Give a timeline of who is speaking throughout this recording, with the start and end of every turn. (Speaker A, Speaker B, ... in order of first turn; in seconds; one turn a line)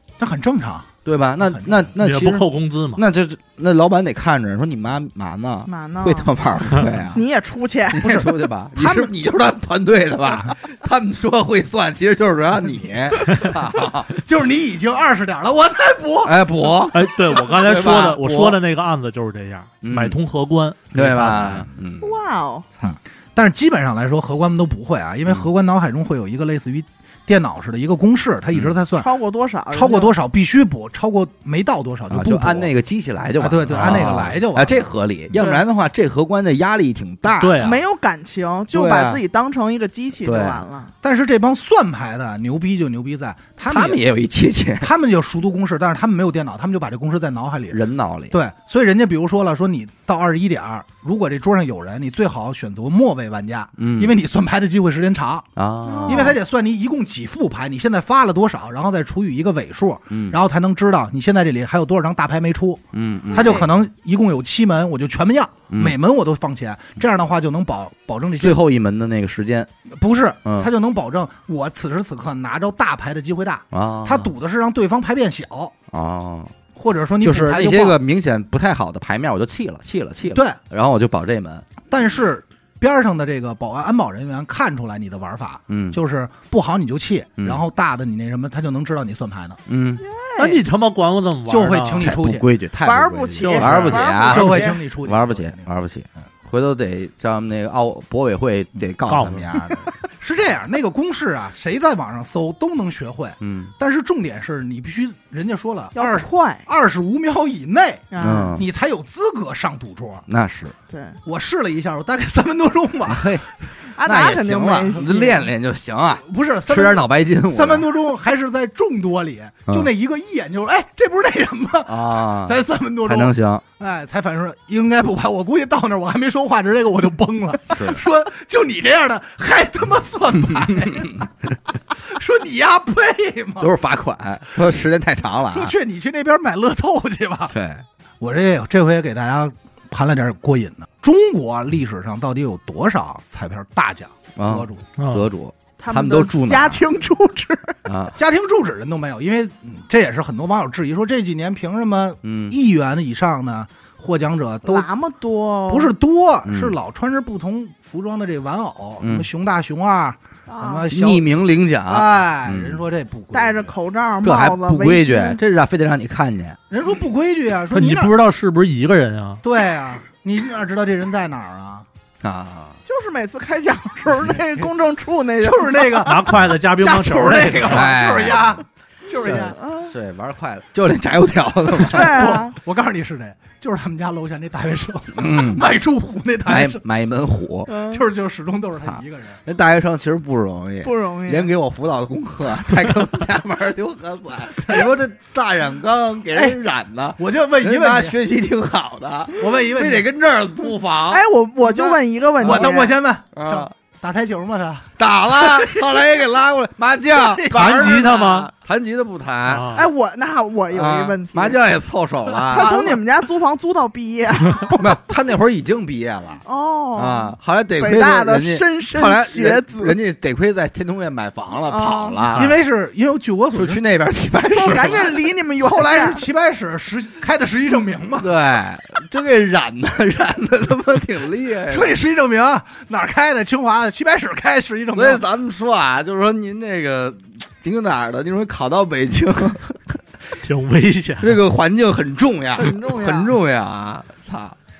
Speaker A: 0.2-1.9
Speaker B: 1.0-7.2
Speaker C: 2.0-3.0
Speaker D: 5.7-6.3
Speaker D: 7.1-8.2
Speaker B: 7.9-14.1
Speaker A: 8.0-9.1
Speaker A: 14.1-16.4
Speaker B: 16.2-18.6
Speaker C: 16.9-21.7
Speaker B: 19.8-20.2
Speaker B: 20.9-22.2
Speaker D: 22.0-22.6
Speaker A: 22.8-29.1
Speaker D: 28.9-30.1
Speaker A: 29.7-32.7
Speaker B: 32.1-37.7
Speaker A: 33.4-34.9
Speaker C: 33.7-34.3
Speaker D: 35.4-35.6
Speaker C: 37.4-37.8
Speaker D: 37.6-40.9
Speaker B: 38.7-39.2
Speaker B: 40.2-40.6
Speaker A: 41.0-44.0
Speaker B: 43.7-44.9
Speaker A: 44.8-55.5
Speaker B: 47.7-48.4
Speaker B: 53.8-54.1
Speaker B: 55.5-56.3
Speaker D: 55.9-56.4
Speaker A: 56.0-68.6
Speaker B: 60.1-60.4
Speaker B: 62.9-63.6
Speaker B: 65.7-65.9
Speaker B: 68.4-69.7
Speaker A: 69.9-75.7
Speaker B: 70.4-70.7
Speaker B: 73.7-74.3
Speaker B: 75.9-76.5
Speaker A: 76.7-78.0
Speaker B: 77.2-81.7
Speaker A: 80.3-80.6
Speaker A: 81.9-89.6
Speaker B: 85.7-86.0
Speaker B: 89.7-90.0
Speaker D: 90.0-90.6
Speaker C: 90.4-92.1
Speaker A: 91.5-92.5
Speaker B: 92.0-99.8
Speaker D: 92.8-94.8
Speaker C: 93.4-94.0
Speaker A: 94.2-95.7
Speaker C: 99.0-99.7
Speaker A: 100.2-110.2
Speaker B: 103.4-103.7
Speaker D: 105.9-106.7
Speaker D: 108.1-108.6
Speaker B: 108.2-108.6
Speaker B: 110.3-110.7
Speaker D: 110.9-111.2
Speaker A: 111.2-113.4
Speaker B: 113.0-117.9
Speaker D: 113.9-115.5
Speaker A: 116.2-133.7
Speaker B: 121.9-123.6
Speaker B: 127.8-128.0
Speaker B: 130.6-131.0
Speaker B: 133.6-135.7
Speaker A: 135.5-137.5
Speaker B: 137.5-137.8
Speaker A: 138.2-144.8
Speaker B: 144.3-146.8
Speaker C: 145.0-145.3
Speaker D: 145.8-147.8
Speaker B: 147.8-148.1
Speaker A: 148.1-154.9
Speaker B: 152.2-152.6
Speaker D: 154.6-155.9
Speaker A: 155.7-161.3
Speaker B: 156.4-156.8
Speaker B: 159.0-159.3
Speaker D: 160.5-160.9
Speaker B: 160.9-162.8
Speaker A: 161.9-163.7
Speaker D: 163.3-165.4
Speaker B: 164.2-166.6
Speaker A: 166.7-168.1
Speaker C: 167.7-169.4
Speaker A: 169.4-171.8
Speaker B: 172.2-172.8
Speaker D: 172.8-176.4
Speaker A: 174.1-174.6
Speaker A: 175.4-179.6
Speaker C: 176.0-177.8
Speaker D: 177.1-177.6
Speaker B: 177.6-178.6
Speaker D: 179.1-179.9
Speaker B: 179.9-182.4
Speaker D: 181.9-182.6
Speaker A: 181.9-186.8
Speaker B: 185.1-185.7
Speaker B: 186.5-187.7
Speaker D: 187.7-188.0
Speaker A: 187.8-189.4
Speaker B: 188.8-202.8
Speaker D: 190.8-191.5
Speaker A: 197.2-198.2
Speaker A: 199.3-200.1
Speaker D: 201.1-202.9
Speaker A: 202.4-206.1
Speaker B: 203.3-203.7
Speaker B: 205.0-209.8
Speaker A: 207.1-208.1
Speaker C: 207.5-208.5
Speaker C: 209.5-209.8
Speaker D: 209.7-211.6
Speaker B: 210.7-213.0
Speaker A: 212.5-213.0
Speaker D: 212.5-214.8
Speaker B: 214.8-216.4
Speaker D: 216.4-220.0
Speaker B: 216.9-222.5
Speaker D: 221.7-222.2
Speaker A: 222.3-223.8
Speaker B: 223.5-225.2
Speaker D: 224.5-226.2
Speaker A: 225.6-228.3
Speaker B: 228.2-231.9
Speaker A: 231.7-235.2
Speaker B: 234.9-240.0
Speaker C: 240.4-241.4
Speaker B: 241.2-244.6
Speaker D: 242.6-243.3